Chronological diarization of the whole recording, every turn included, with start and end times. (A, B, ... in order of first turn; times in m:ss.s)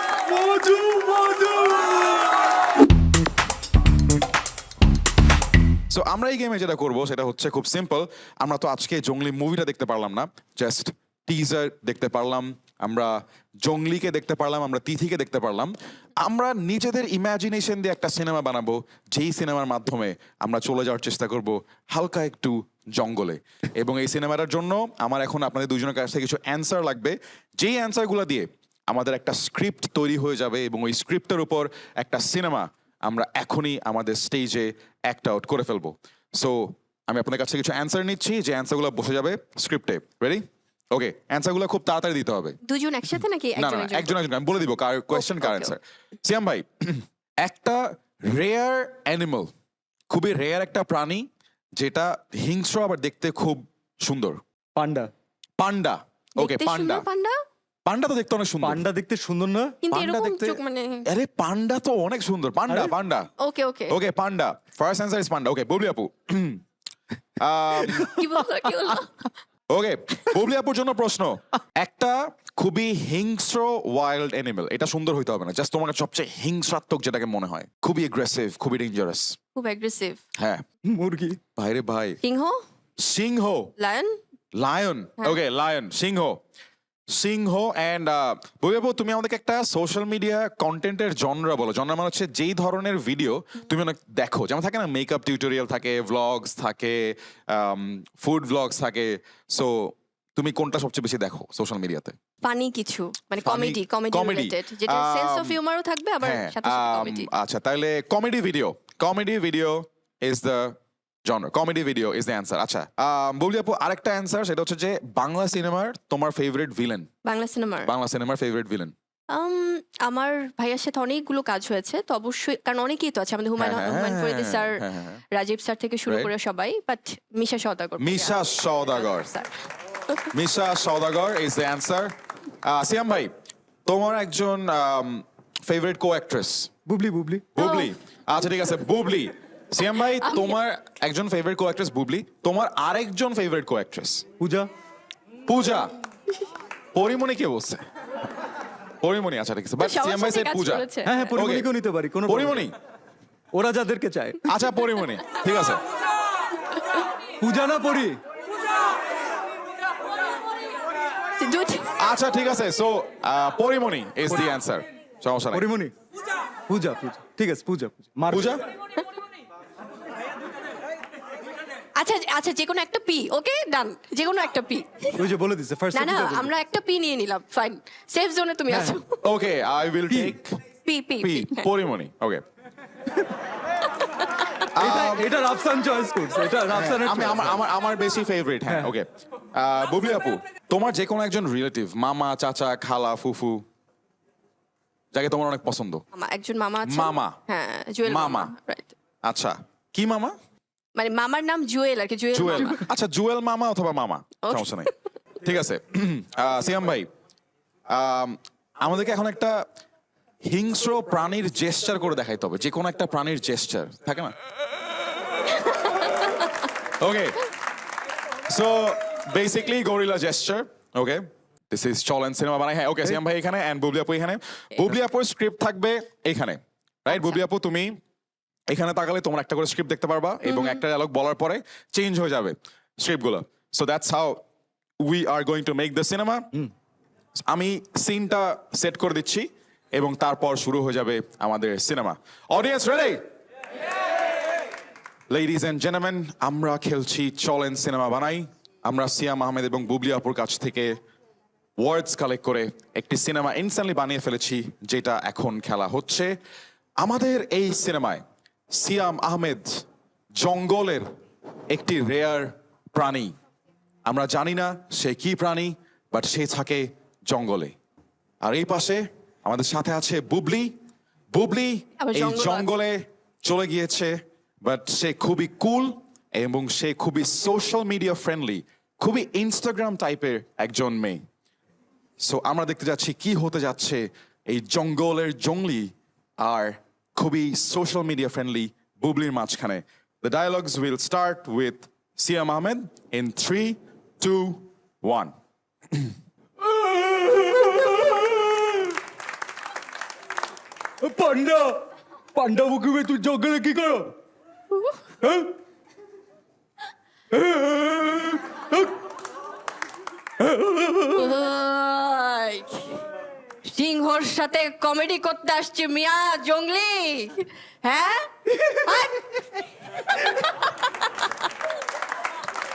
0:00.2-0:02.4 A
0:05.9-0:42.6 B
0:42.6-0:44.2 C
0:43.6-0:49.5 B
0:45.1-0:45.8 C
0:50.1-0:51.3 B
0:51.8-0:54.4 B
0:54.8-0:55.1 A
0:55.6-0:57.0 B
0:56.4-0:57.4 C
0:57.8-0:58.8 B
0:58.6-0:59.8 A
0:59.8-1:01.1 C
0:59.9-1:03.3 B
1:03.4-1:04.0 C
1:03.9-1:06.6 B
1:07.4-1:08.2 B
1:08.0-1:09.3 C
1:09.7-1:19.4 B
1:19.5-1:20.2 C
1:20.4-1:20.6 B
1:20.8-1:21.4 A
1:21.6-1:22.2 B
1:22.2-1:22.6 C
1:23.0-1:23.7 B
1:23.8-1:24.2 C
1:24.6-1:26.4 B
1:27.1-1:42.2 B
1:42.4-1:47.3 C
1:43.4-1:45.6 B
1:46.2-1:57.1 B
1:57.2-1:57.9 C
1:57.8-1:58.9 B
1:59.3-2:09.5 C
2:03.6-2:05.2 B
2:08.0-2:09.3 B
2:10.3-2:13.3 B
2:13.8-2:16.7 B
2:16.8-2:17.4 A
2:17.5-2:24.2 B
2:17.6-2:17.9 C
2:20.2-2:20.6 C
2:24.4-2:24.7 A
2:25.5-2:25.9 B
2:26.9-2:27.8 B
2:29.0-2:31.7 B
2:29.8-2:31.3 C
2:31.0-2:32.7 A
2:32.2-2:32.7 B
2:33.5-2:34.4 A
2:34.4-2:35.8 B
2:37.4-2:38.2 A
2:41.4-2:41.9 C
2:42.0-2:45.7 B
2:45.5-2:45.9 A
2:46.7-2:48.6 A
2:48.3-2:48.7 B
2:52.0-2:55.2 C
2:55.2-2:56.5 A
2:55.9-2:59.2 C
2:58.7-2:59.0 A
2:59.2-3:00.6 B
3:00.1-3:00.4 A
3:00.8-3:01.7 C
3:01.2-3:02.4 B
3:04.7-3:05.3 B
3:04.8-3:07.6 A
3:06.7-3:13.6 B
3:08.7-3:08.9 A
3:15.1-3:16.0 B
3:16.1-3:18.9 C
3:16.8-3:17.4 B
3:18.0-3:18.5 B
3:19.2-3:20.3 B
3:20.9-3:22.8 C
3:22.3-3:24.9 B
3:24.4-3:24.9 C
3:25.4-3:27.1 B
3:27.9-3:29.6 B
3:30.4-3:34.3 B
3:37.0-3:37.4 B
3:38.5-3:48.0 B
3:48.7-3:54.4 B
3:50.4-3:50.8 C
3:55.0-3:56.6 B
3:57.5-4:03.2 B
4:05.3-4:11.0 B
4:11.8-4:16.3 B
4:17.0-4:18.2 B
4:18.7-4:19.7 B
4:20.4-4:21.0 B
4:21.7-4:23.3 B
4:24.0-4:27.8 B
4:28.4-4:30.7 B
4:31.3-4:41.2 B
4:32.0-4:32.7 C
4:42.2-4:55.3 B
4:56.6-4:58.9 A
5:01.0-5:01.8 A
5:02.3-5:04.2 A
5:05.2-5:05.5 A
5:07.3-5:08.9 A
5:10.4-5:11.2 A
5:11.0-5:13.0 C
5:13.6-5:19.5 C
5:20.2-5:21.1 C